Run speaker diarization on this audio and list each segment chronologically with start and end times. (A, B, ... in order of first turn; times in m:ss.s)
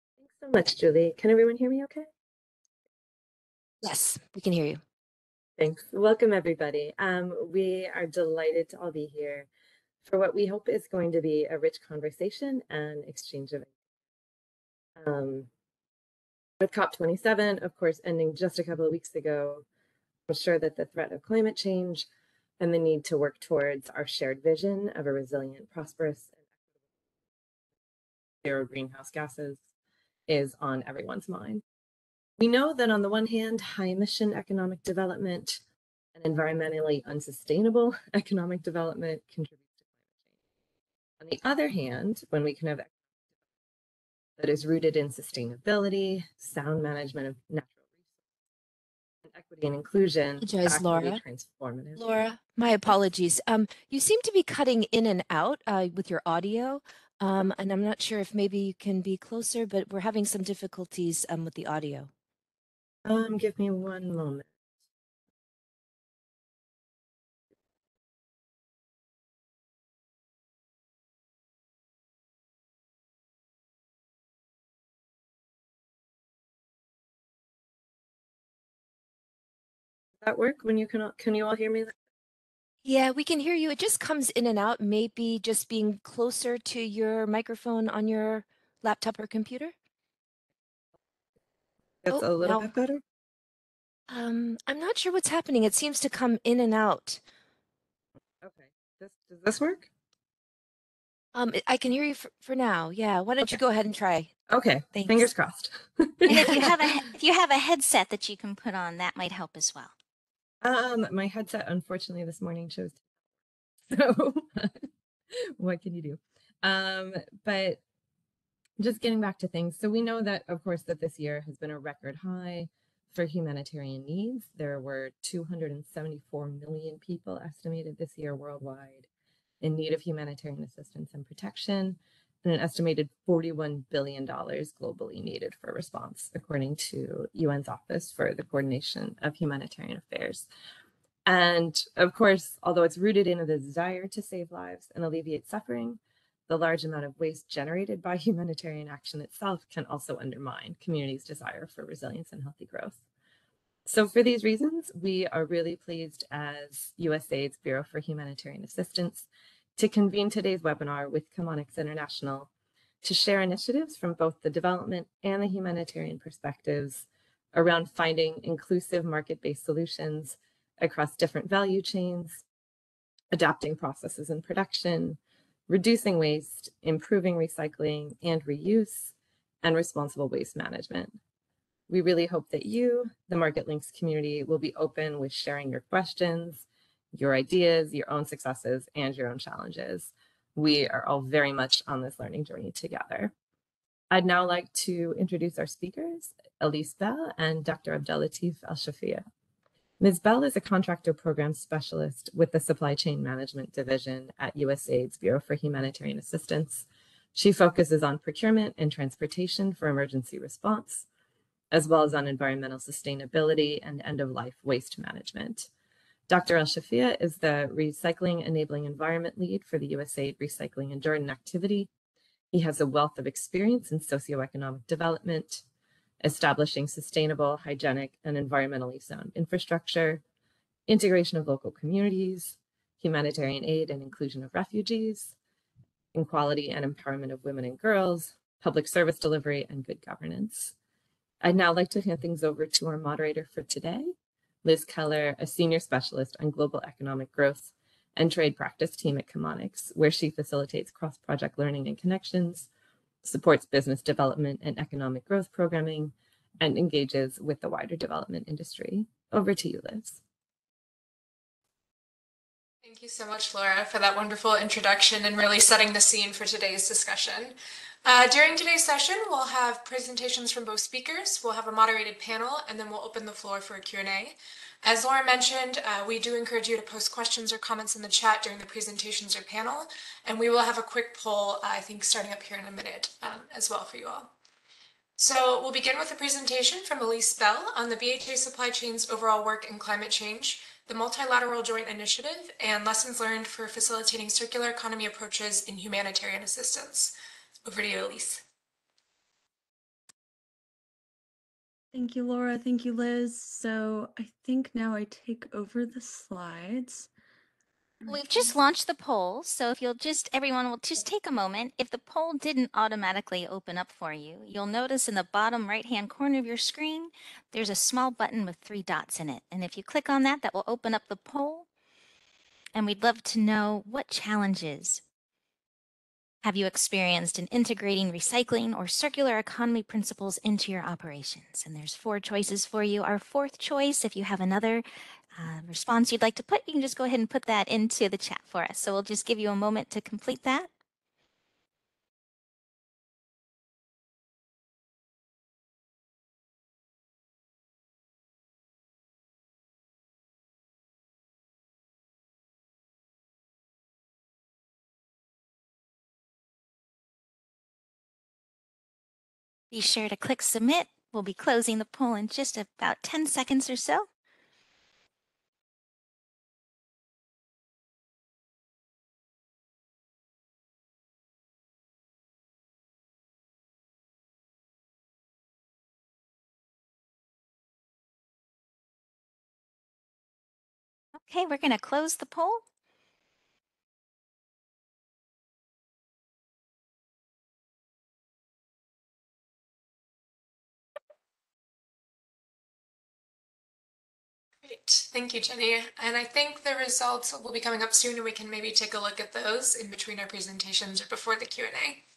0:00.2-0:02.1 A
0:03.8-0:04.8 B
0:05.6-0:09.5 A
0:10.0-0:13.7 A
0:15.0-0:15.5 A
0:16.6-0:19.6 A
0:20.3-0:22.1 A
0:22.6-0:26.3 A
0:28.4-0:29.6 A
0:30.3-0:31.6 A
0:32.4-0:35.6 A
0:36.1-0:39.8 A
0:41.2-0:42.9 A
0:44.4-0:47.8 A
0:49.3-0:52.0 A
0:50.4-0:51.2 B
0:52.0-1:02.1 B
1:03.0-1:04.5 A
1:20.2-1:21.9 A
1:22.8-1:29.7 B
1:32.0-1:33.0 A
1:32.1-1:32.7 B
1:34.1-1:37.2 B
1:38.4-1:39.9 A
1:41.3-1:44.3 B
1:44.5-1:46.9 A
1:44.9-1:45.3 B
1:46.2-1:49.9 C
1:46.4-1:46.6 B
1:50.6-1:53.0 A
1:53.9-1:54.9 A
1:55.6-1:57.8 A
1:58.8-2:09.1 A
2:09.6-2:20.5 A
2:21.2-2:33.0 A
2:33.8-2:42.5 A
2:43.0-2:52.4 A
2:53.3-3:01.2 A
3:01.9-3:13.3 A
3:14.1-3:19.2 A
3:20.0-3:31.0 A
3:31.7-3:35.7 A
3:36.3-3:41.9 A
3:42.5-3:45.6 A
3:46.2-3:50.2 A
3:50.9-3:55.3 A
3:56.1-4:00.7 A
4:01.4-4:12.7 A
4:13.2-4:20.2 A
4:22.8-4:44.3 D
4:45.2-4:58.4 D
5:01.9-5:07.1 E
5:08.1-5:21.7 C
5:22.7-5:25.0 C
5:26.4-5:34.8 C
5:35.4-5:40.7 C
5:59.7-6:04.0 C
6:21.2-6:22.6 C
6:34.6-6:42.0 D